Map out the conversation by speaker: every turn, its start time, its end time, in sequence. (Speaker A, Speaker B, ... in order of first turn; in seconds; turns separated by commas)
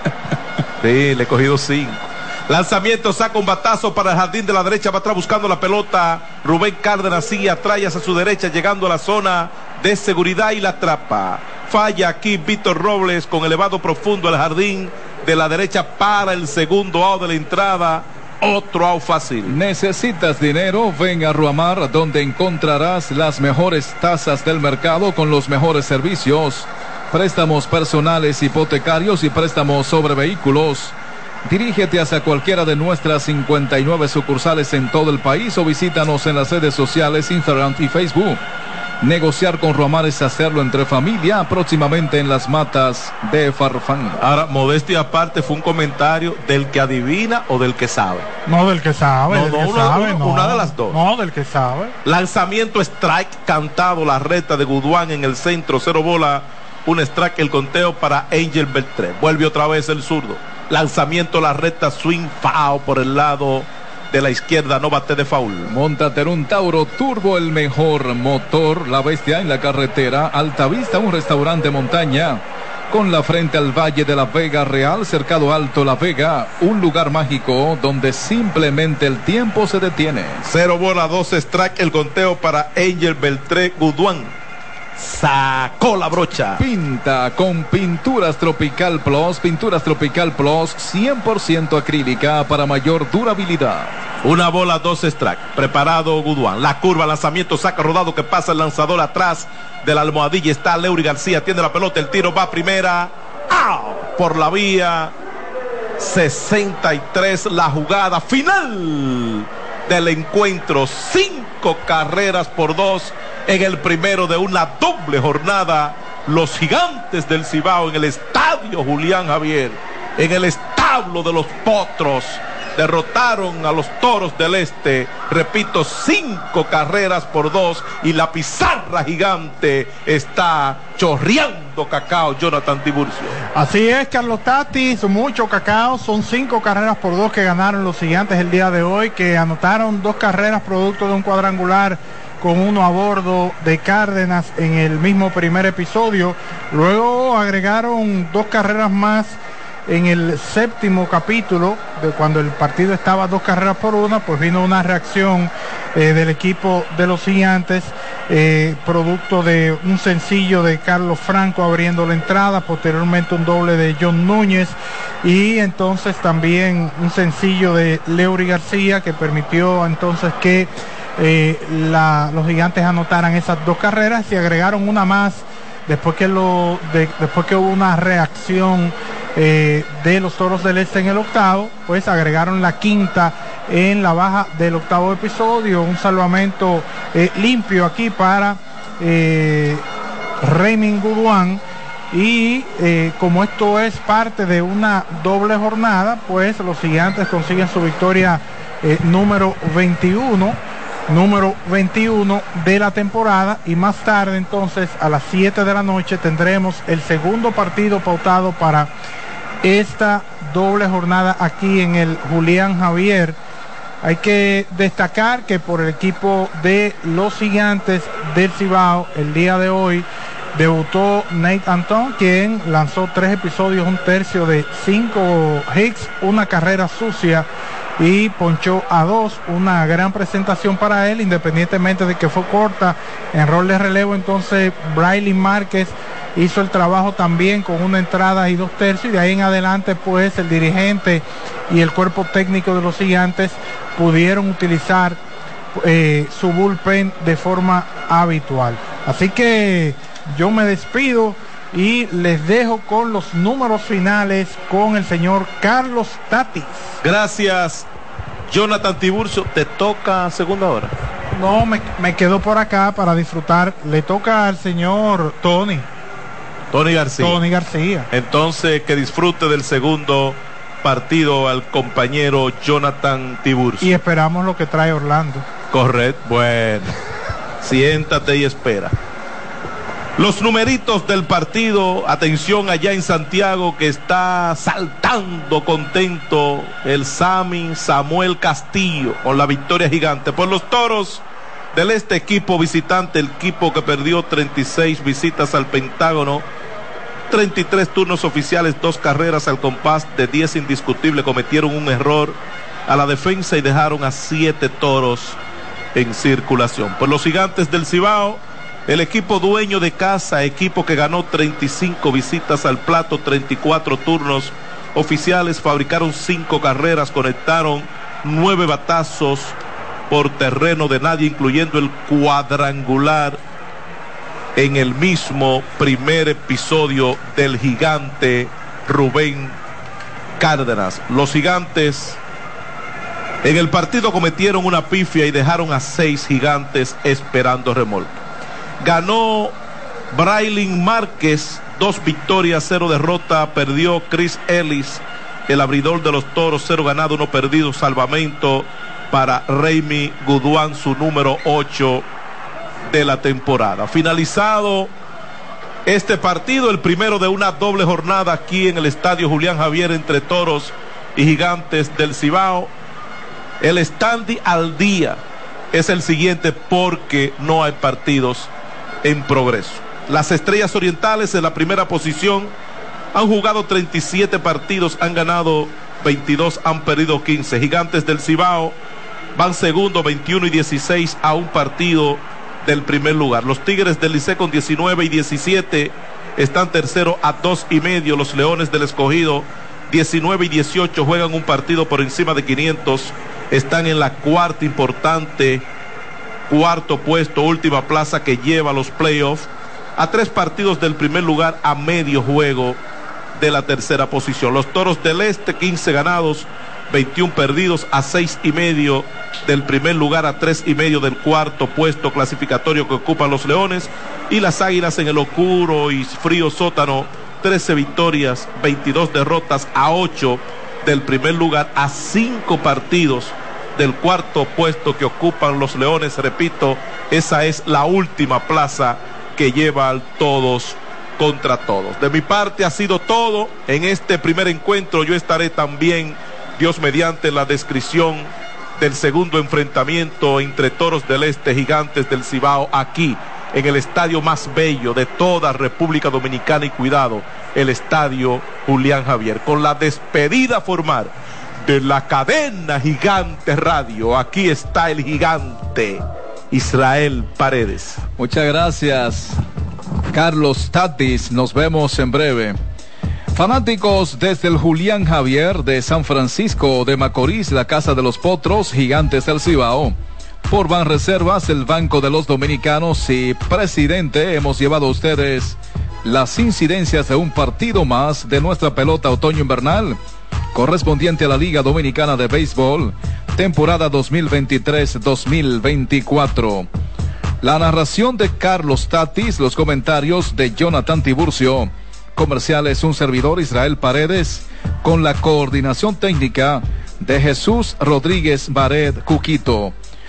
Speaker A: 0.8-19.6, Speaker B: 19.4-30.9, Speaker B: 31.4-38.4, Speaker B: 39.0-44.2, Speaker A: 44.2-48.3, Speaker C: 48.5-51.9, Speaker A: 49.3-51.0, Speaker A: 52.0-65.7, Speaker B: 65.7-80.5, Speaker A: 80.5-84.3, Speaker A: 85.0-86.6, Speaker B: 86.6-93.9, Speaker A: 94.2-105.1, Speaker A: 106.0-133.4, Speaker C: 133.5-189.8, Speaker C: 190.4-208.9, Speaker C: 209.6-213.4, Speaker C: 214.0-245.2, Speaker C: 245.7-256.9, Speaker A: 257.0-257.9, Speaker A: 258.5-260.9, Speaker C: 261.3-265.9, Speaker A: 266.7-267.4, Speaker C: 267.2-268.1, Speaker A: 268.1-274.0, Speaker C: 273.8-275.5, Speaker A: 275.7-276.9, Speaker A: 277.6-278.9, Speaker A: 280.2-291.2, Speaker A: 291.7-296.4, Speaker A: 297.3-305.4, Speaker A: 305.9-319.6, Speaker A: 320.1-323.4, Speaker A: 324.6-329.6, Speaker A: 330.4-332.2, Speaker A: 333.4-338.2, Speaker A: 338.8-339.5, Speaker A: 340.1-352.0, Speaker A: 352.9-354.9, Speaker A: 355.9-362.7, Speaker A: 363.6-365.2, Speaker A: 365.7-368.5, Speaker A: 369.0-372.5, Speaker A: 373.1-378.8, Speaker A: 379.4-395.6, Speaker A: 396.5-402.8, Speaker A: 403.4-451.1, Speaker A: 451.6-458.0, Speaker B: 458.2-459.4, Speaker B: 460.1-462.6, Speaker B: 463.3-469.9, Speaker B: 470.5-480.0, Speaker B: 480.5-486.7, Speaker B: 487.4-499.7